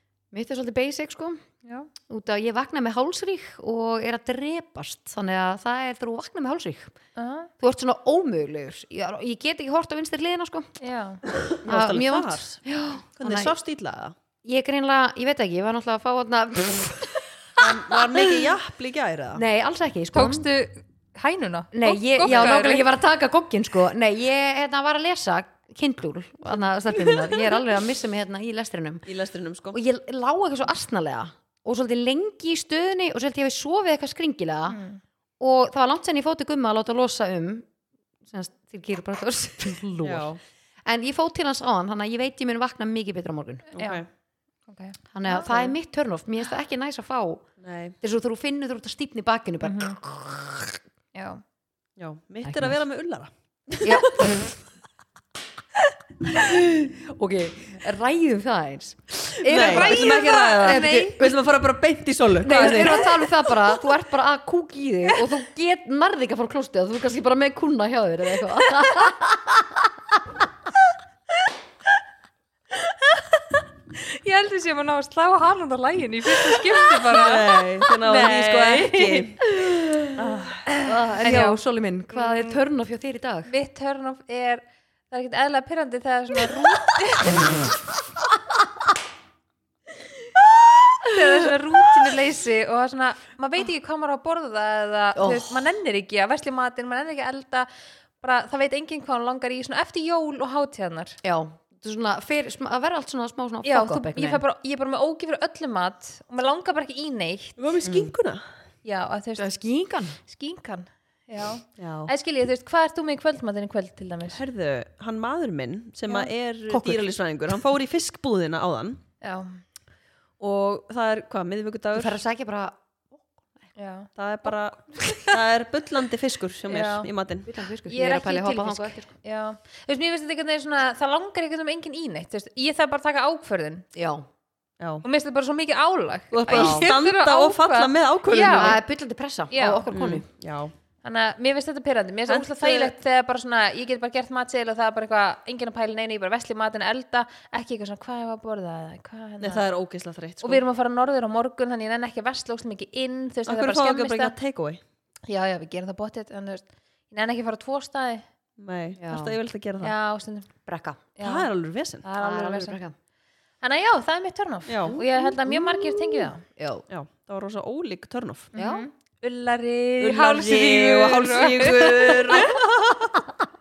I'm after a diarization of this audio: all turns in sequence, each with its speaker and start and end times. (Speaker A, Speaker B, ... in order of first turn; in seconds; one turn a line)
Speaker A: 0.3-1.4
Speaker B: 1.6-1.9
Speaker A: 2.1-6.9
Speaker B: 7.2-7.5
Speaker A: 7.6-10.8
Speaker B: 10.8-11.2
Speaker C: 11.3-12.6
Speaker A: 11.6-13.5
Speaker C: 13.2-14.1
Speaker A: 14.4-18.4
Speaker C: 17.6-19.4
Speaker A: 19.3-20.5
Speaker B: 20.1-22.9
Speaker A: 21.7-29.0
Speaker C: 22.2-22.6
Speaker C: 29.1-29.8
Speaker A: 29.7-34.8
Speaker B: 34.7-35.0
Speaker A: 35.4-37.7
Speaker A: 38.2-40.3
Speaker C: 40.0-40.4
Speaker A: 40.8-43.7
Speaker B: 43.7-44.0
Speaker C: 43.8-44.0
Speaker B: 44.7-45.7
Speaker A: 45.1-47.5
Speaker C: 47.6-48.0
Speaker A: 48.0-50.8
Speaker B: 49.6-50.0
Speaker B: 51.1-51.4
Speaker C: 52.0-54.5
Speaker A: 52.4-52.8
Speaker A: 53.8-54.5
Speaker A: 56.3-61.4
Speaker C: 59.4-63.1
Speaker B: 59.5-61.2
Speaker A: 62.4-69.9
Speaker B: 62.4-63.7
Speaker B: 73.9-79.3
Speaker C: 77.0-80.7
Speaker A: 79.6-80.1
Speaker B: 80.7-81.6
Speaker A: 80.8-83.5
Speaker B: 82.1-82.6
Speaker B: 83.5-87.5
Speaker B: 91.0-97.7
Speaker A: 95.1-95.5
Speaker B: 98.2-101.2
Speaker A: 101.2-104.4
Speaker B: 103.6-107.6
Speaker C: 107.6-108.4
Speaker A: 107.8-108.1
Speaker B: 108.8-109.5
Speaker A: 109.4-110.2
Speaker B: 110.2-114.4
Speaker C: 111.8-112.1
Speaker C: 114.3-119.0
Speaker A: 116.7-117.1
Speaker B: 119.2-119.6
Speaker C: 120.4-122.2
Speaker A: 121.9-123.2
Speaker B: 123.8-124.1
Speaker C: 124.2-127.5
Speaker B: 125.0-125.3
Speaker B: 126.7-127.1
Speaker A: 127.5-129.1
Speaker B: 127.8-133.8
Speaker A: 133.9-134.2
Speaker C: 134.8-135.0
Speaker B: 135.0-138.8
Speaker C: 136.3-138.8
Speaker A: 136.5-136.9
Speaker A: 138.3-140.2
Speaker B: 139.5-139.9
Speaker C: 139.9-140.7
Speaker B: 141.0-149.6
Speaker C: 142.3-142.9
Speaker C: 149.4-150.6
Speaker B: 150.4-154.3
Speaker C: 153.5-154.8
Speaker B: 155.3-158.2
Speaker C: 158.6-159.9
Speaker A: 159.0-159.3
Speaker B: 159.8-160.5
Speaker A: 160.7-161.1
Speaker B: 161.2-161.5
Speaker C: 161.2-162.1
Speaker B: 162.0-162.8
Speaker A: 162.2-162.9
Speaker B: 163.6-166.4
Speaker C: 164.7-165.0
Speaker A: 164.9-166.8
Speaker C: 166.9-168.5
Speaker B: 168.5-172.6
Speaker A: 168.6-168.8
Speaker C: 170.0-173.3